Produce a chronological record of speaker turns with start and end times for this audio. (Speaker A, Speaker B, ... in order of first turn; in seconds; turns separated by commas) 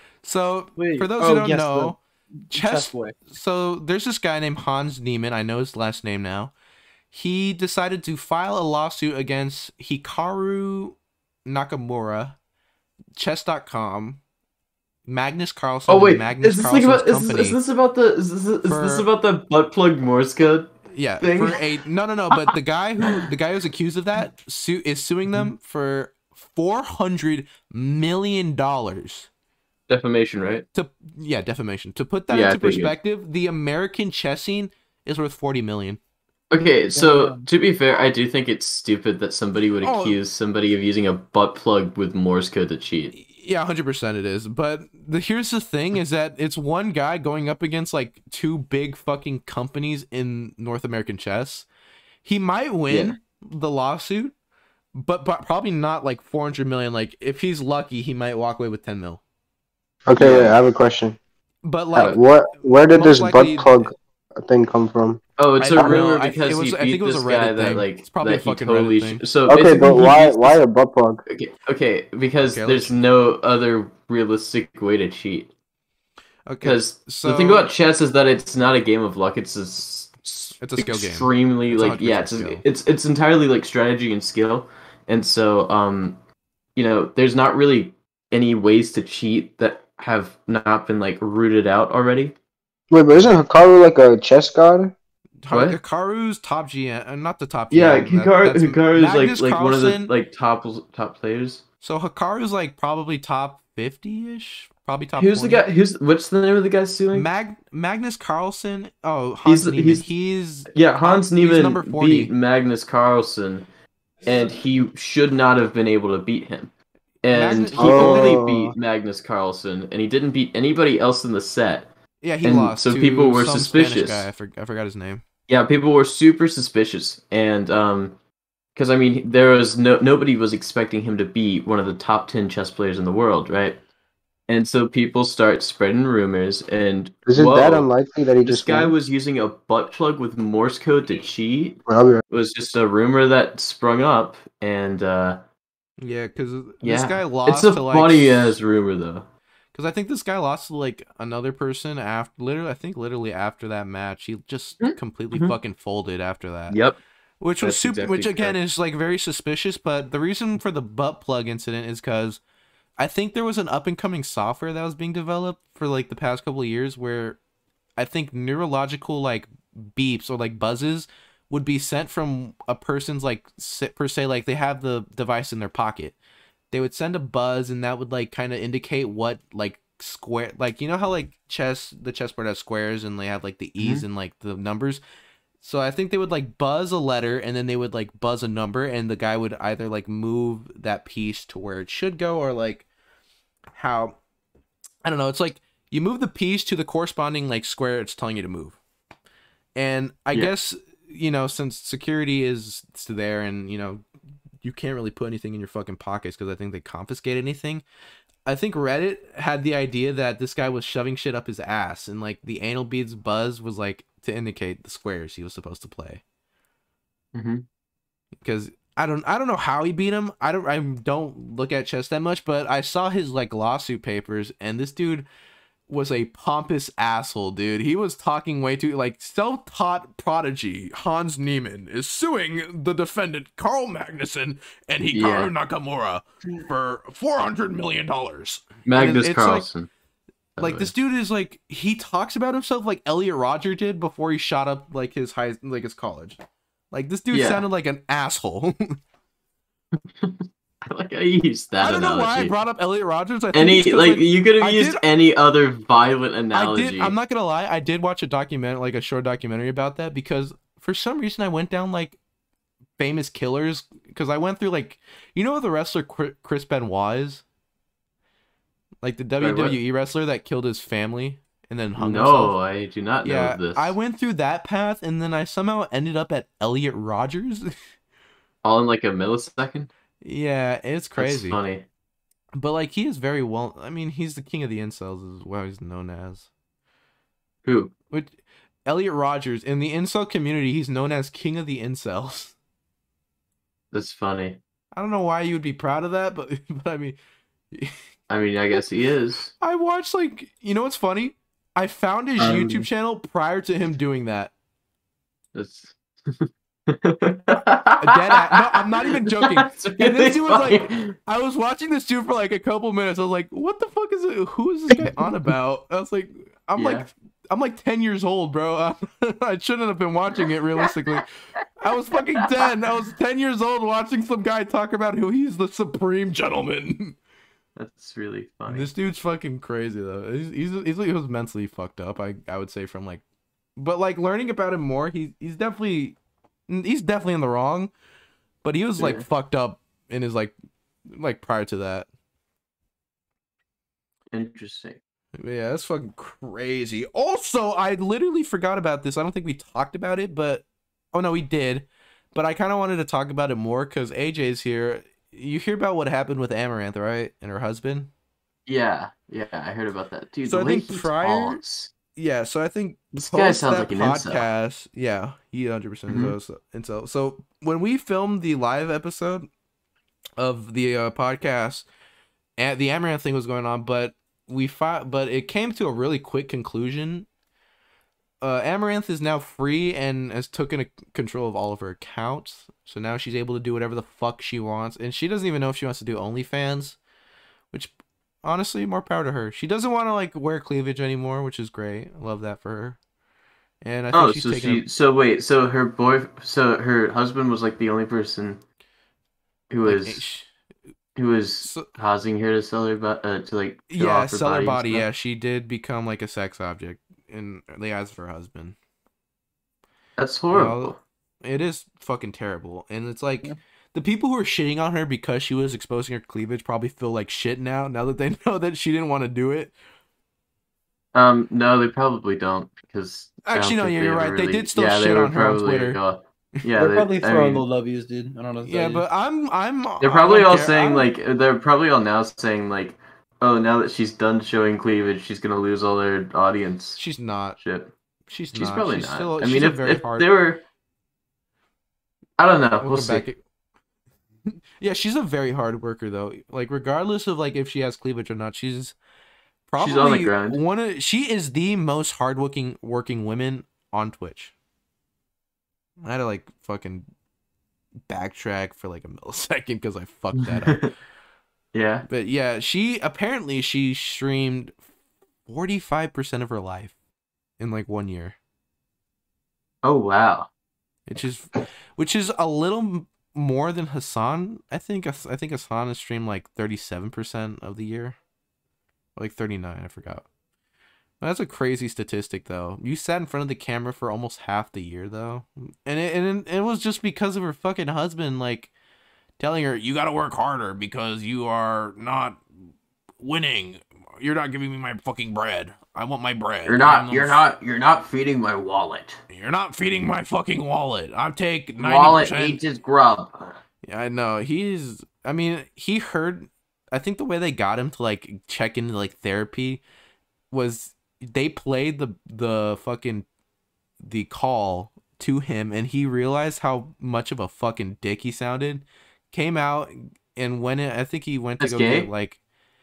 Speaker A: 0.2-2.0, Speaker B: 0.8-1.9, Speaker B: 2.5-3.2, Speaker A: 2.5-6.5, Speaker A: 7.1-12.4, Speaker A: 13.2-14.2, Speaker A: 15.1-17.6, Speaker C: 15.9-21.6, Speaker A: 18.6-19.1, Speaker A: 20.9-29.3, Speaker C: 29.9-30.7, Speaker A: 30.7-36.0, Speaker C: 32.3-32.9, Speaker C: 36.5-43.1, Speaker B: 37.0-37.5, Speaker A: 39.8-40.2, Speaker A: 43.1-51.7, Speaker A: 52.2-54.3, Speaker C: 52.9-53.2, Speaker A: 55.0-59.2, Speaker D: 60.1-61.2, Speaker C: 60.1-60.6, Speaker A: 61.6-62.3, Speaker D: 62.0-65.2, Speaker A: 62.9-63.9, Speaker C: 65.4-70.6, Speaker A: 65.6-69.2, Speaker D: 69.5-71.2, Speaker C: 71.3-75.5, Speaker A: 72.5-72.9, Speaker A: 76.5-77.7, Speaker C: 76.6-86.2, Speaker A: 80.6-82.6, Speaker C: 86.8-92.4, Speaker D: 92.9-95.0, Speaker A: 95.4-100.1, Speaker C: 95.5-95.8, Speaker C: 97.7-101.6, Speaker A: 101.8-105.7, Speaker C: 105.2-107.3, Speaker A: 107.1-112.3, Speaker C: 109.5-110.1, Speaker C: 110.7-113.7, Speaker C: 114.2-116.7, Speaker C: 117.2-121.9, Speaker A: 117.3-118.5, Speaker D: 117.8-118.7, Speaker A: 122.2-125.2, Speaker C: 122.4-124.3, Speaker C: 125.5-128.2, Speaker C: 128.8-133.8, Speaker C: 134.5-137.9, Speaker D: 137.3-138.9, Speaker C: 138.4-145.4, Speaker D: 141.9-142.2, Speaker A: 146.0-148.6, Speaker C: 146.8-149.3, Speaker A: 149.7-156.8, Speaker C: 154.8-155.6, Speaker C: 156.7-157.0, Speaker A: 157.4-162.4, Speaker C: 157.6-158.6, Speaker A: 163.0-167.4, Speaker A: 168.0-176.2, Speaker A: 176.7-185.0, Speaker C: 183.8-184.1, Speaker A: 185.6-192.9, Speaker A: 193.7-194.2, Speaker A: 195.1-198.8, Speaker A: 199.8-204.0, Speaker A: 204.6-207.8, Speaker A: 208.5-216.2, Speaker C: 217.3-217.7, Speaker A: 218.4-225.3, Speaker A: 225.9-239.7, Speaker C: 235.1-235.5, Speaker C: 238.8-239.9, Speaker C: 240.6-240.9, Speaker A: 240.6-246.4, Speaker A: 246.9-249.0, Speaker C: 247.3-247.6, Speaker C: 250.2-252.5, Speaker A: 251.8-255.0, Speaker C: 253.5-257.1, Speaker A: 256.5-262.2, Speaker A: 263.0-267.4, Speaker A: 269.0-272.6, Speaker C: 269.4-269.8, Speaker C: 272.0-273.9, Speaker A: 273.2-277.8, Speaker C: 278.6-279.9, Speaker A: 280.2-281.6, Speaker C: 281.2-281.9, Speaker A: 282.6-286.5, Speaker C: 287.6-287.9, Speaker A: 288.9-292.5, Speaker C: 293.9-294.6, Speaker A: 294.9-297.2, Speaker C: 298.3-299.5, Speaker A: 299.6-304.5, Speaker C: 302.4-302.9, Speaker C: 305.6-311.1, Speaker A: 308.0-321.3, Speaker C: 316.8-317.1, Speaker A: 321.8-327.2, Speaker C: 327.8-328.9, Speaker A: 328.7-333.2, Speaker A: 333.8-336.2, Speaker A: 336.7-337.9, Speaker A: 338.6-340.5, Speaker C: 339.0-339.3, Speaker A: 341.1-342.1, Speaker C: 344.3-345.0, Speaker A: 345.4-358.1, Speaker C: 358.7-361.9, Speaker A: 360.5-361.6, Speaker A: 362.1-369.5, Speaker C: 363.1-364.5, Speaker C: 366.1-366.4, Speaker A: 370.4-371.9, Speaker A: 372.6-377.3, Speaker A: 378.4-387.0, Speaker A: 387.7-393.0, Speaker A: 393.8-394.8, Speaker C: 394.1-398.6, Speaker C: 399.7-400.2, Speaker A: 399.9-400.5, Speaker C: 401.2-405.1, Speaker A: 401.6-401.9, Speaker A: 403.9-408.8, Speaker C: 410.2-411.0, Speaker A: 410.5-419.7, Speaker C: 421.1-427.7, Speaker A: 423.4-426.0, Speaker B: 426.8-429.1, Speaker A: 428.6-431.1, Speaker C: 430.0-437.0, Speaker A: 437.0-437.6, Speaker C: 437.6-437.9, Speaker A: 438.3-440.3, Speaker C: 438.6-440.6, Speaker C: 442.4-443.3, Speaker A: 442.8-443.4, Speaker A: 444.8-449.0, Speaker A: 449.7-454.5, Speaker C: 449.8-450.6, Speaker A: 456.0-457.1, Speaker A: 458.1-460.9, Speaker C: 460.4-460.9, Speaker C: 461.7-462.1, Speaker A: 462.1-464.8, Speaker A: 465.5-466.9, Speaker A: 467.6-468.4, Speaker C: 469.8-470.5, Speaker A: 471.1-478.2, Speaker A: 479.2-480.3, Speaker A: 481.2-488.7, Speaker A: 489.4-492.4, Speaker A: 493.2-497.5, Speaker C: 496.6-499.2, Speaker A: 499.3-502.6, Speaker C: 501.8-503.6, Speaker A: 503.9-509.8, Speaker A: 510.5-513.2, Speaker A: 514.0-522.4, Speaker C: 521.6-522.1